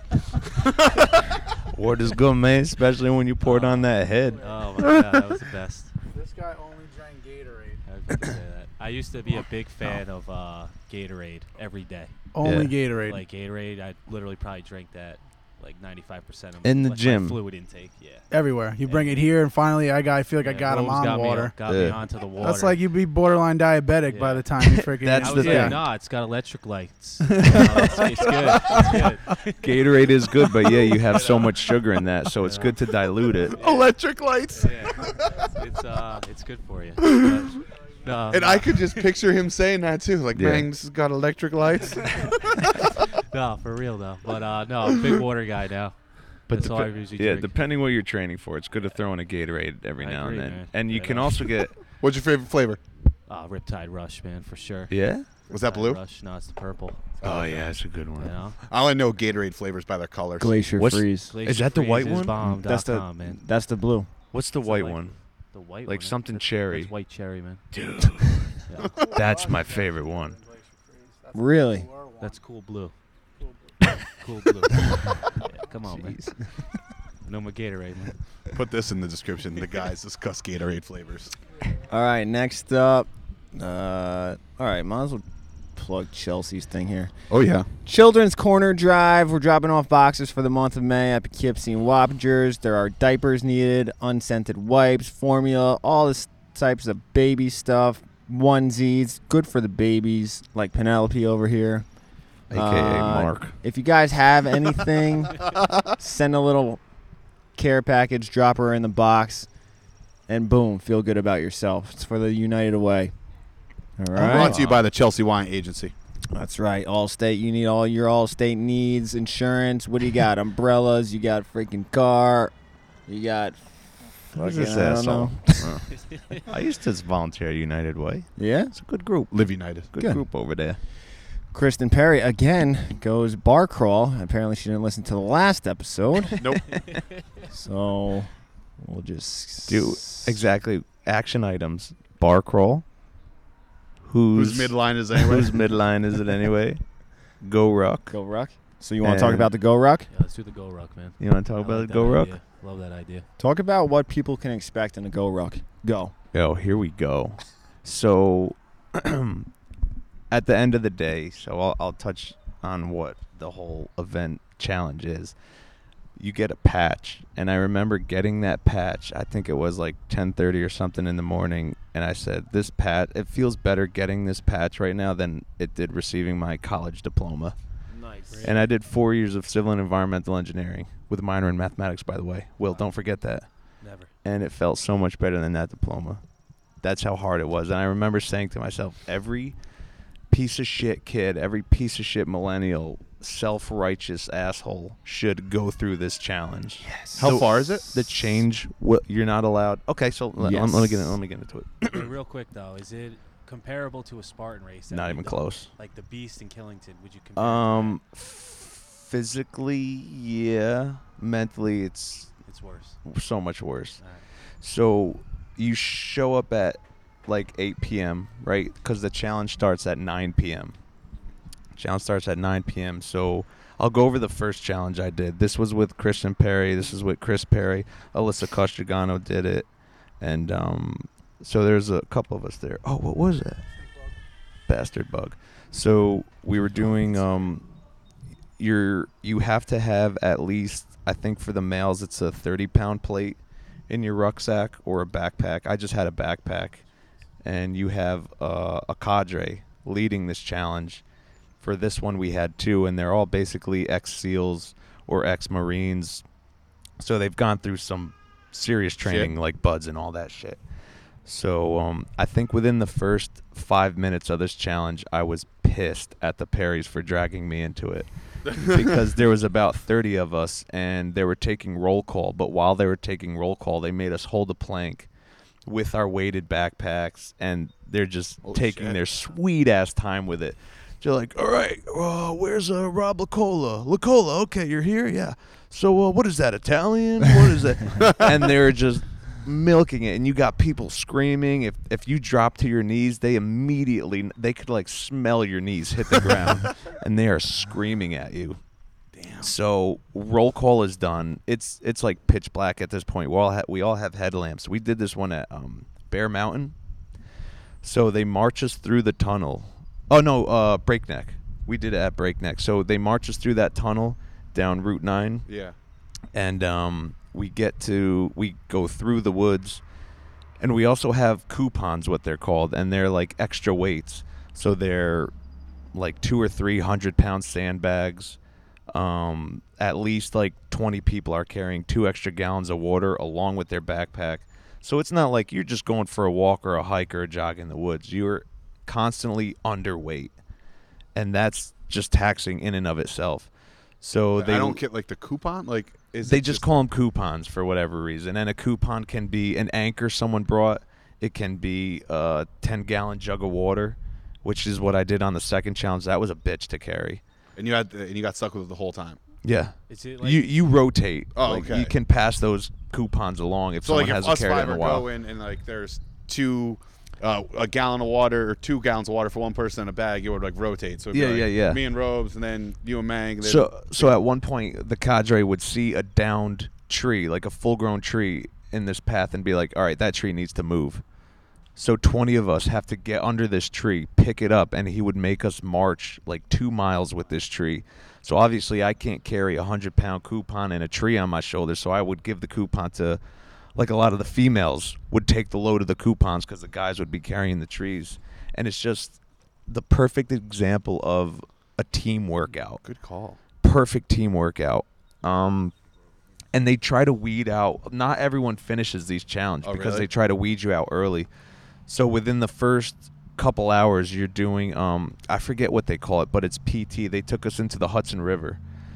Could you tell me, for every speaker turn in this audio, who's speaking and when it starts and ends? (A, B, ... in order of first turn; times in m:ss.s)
0:01.7-0:04.6 A
0:03.4-0:05.9 B
0:04.4-0:04.7 C
0:06.1-0:07.8 C
0:07.8-0:12.3 B
0:12.3-0:13.2 C
0:12.4-0:12.8 A
0:13.0-0:19.3 B
0:16.6-0:17.4 A
0:18.3-0:21.6 C
0:20.4-0:22.9 B
0:21.6-0:22.0 A
0:22.3-0:25.8 C
0:24.1-0:29.9 B
0:24.6-0:25.8 A
0:27.2-0:29.0 C
0:29.6-0:33.6 A
0:31.1-0:31.6 B
0:32.4-0:32.9 B
0:33.4-0:34.0 B
0:33.5-0:35.4 D
0:34.5-0:39.1 B
0:37.0-0:37.5 D
0:38.3-0:42.3 D
0:40.3-0:40.7 A
0:42.0-0:42.3 B
0:43.2-0:47.6 B
0:46.5-0:51.8 A
0:50.0-0:51.6 B
0:52.0-0:52.8 D
0:53.3-0:54.9 B
0:54.9-0:55.3 A
0:55.5-0:56.0 D
0:55.5-0:57.2 B
0:57.2-0:57.7 D
0:57.2-0:58.4 A
0:58.2-0:58.6 B
0:58.6-1:00.6 D
1:00.4-1:01.4 E
1:00.8-1:02.6 A
1:01.3-1:03.4 B
1:02.4-1:04.1 E
1:04.3-1:05.2 A
1:04.6-1:07.6 B
1:05.8-1:06.9 A
1:07.7-1:10.4 A
1:08.7-1:09.0 B
1:09.0-1:12.4 C
1:11.3-1:11.9 E
1:12.2-1:13.0 B
1:13.4-1:13.9 C
1:14.2-1:16.4 B
1:17.2-1:18.3 B
1:18.5-1:21.4 D
1:21.9-1:41.9 E
1:27.3-1:27.7 D
1:42.5-1:43.6 A
1:42.5-1:46.8 E
1:47.6-1:49.5 E
1:50.3-1:53.1 E
1:54.0-1:54.6 E
1:54.1-1:55.9 D
1:54.3-1:54.7 A
1:56.3-2:02.5 E
2:03.1-2:05.8 E
2:04.3-2:10.8 A
2:06.0-2:06.4 B
2:08.4-2:08.7 E
2:09.3-2:09.9 D
2:10.0-2:10.2 E
2:11.5-2:16.6 E
2:16.4-2:16.8 D
2:17.5-2:20.4 E
2:19.7-2:22.8 A
2:24.0-2:26.8 A
2:24.4-2:25.6 D
2:27.4-2:28.2 A
2:28.1-2:30.1 E
2:29.0-2:29.5 A
2:30.1-2:33.3 B
2:31.2-2:32.4 A
2:33.4-2:36.1 E
2:36.3-2:39.5 A
2:40.3-2:45.3 A
2:46.2-2:57.6 A
2:58.3-2:58.6 B
2:58.4-3:03.5 A
3:03.8-3:04.1 B
3:04.2-3:06.2 A
3:06.8-3:09.6 A
3:10.3-3:22.1 A
3:16.8-3:17.3 E
3:17.2-3:18.0 D
3:20.4-3:21.2 E
3:21.9-3:28.0 B
3:24.9-3:25.7 A
3:27.4-3:32.4 A
3:32.4-3:33.0 B
3:33.1-3:34.0 A
3:34.0-3:34.2 B
3:34.6-3:40.8 A
3:41.8-3:49.7 A
3:50.2-3:53.7 A
3:54.7-3:57.6 A
3:58.6-4:06.8 A
4:07.4-4:11.0 A
4:11.6-4:16.2 A
4:17.0-4:20.6 A
4:19.0-4:19.3 D
4:21.2-4:35.1 A
4:35.7-4:58.6 A
4:38.4-4:39.0 D
4:59.1-4:59.5 D
4:59.4-5:06.8 A
5:07.8-5:15.5 A
5:15.5-5:15.8 D
5:16.3-5:19.8 A
5:20.6-5:25.3 A
5:25.9-5:28.4 A
5:28.9-5:40.3 A
5:41.2-5:43.5 A
5:44.0-5:44.8 A
5:44.4-5:46.7 D
5:46.2-5:57.2 A
5:57.6-5:59.2 D
5:59.4-6:05.1 A
5:59.9-6:00.5 B
6:01.4-6:01.9 D
6:03.8-6:14.2 D
6:11.1-6:11.8 A
6:13.4-6:21.0 A
6:21.8-6:33.2 A
6:33.8-6:42.8 A
6:42.8-6:43.4 D
6:43.6-6:45.7 A
6:46.5-6:51.3 A
6:49.6-6:50.1 D
6:51.9-6:58.6 A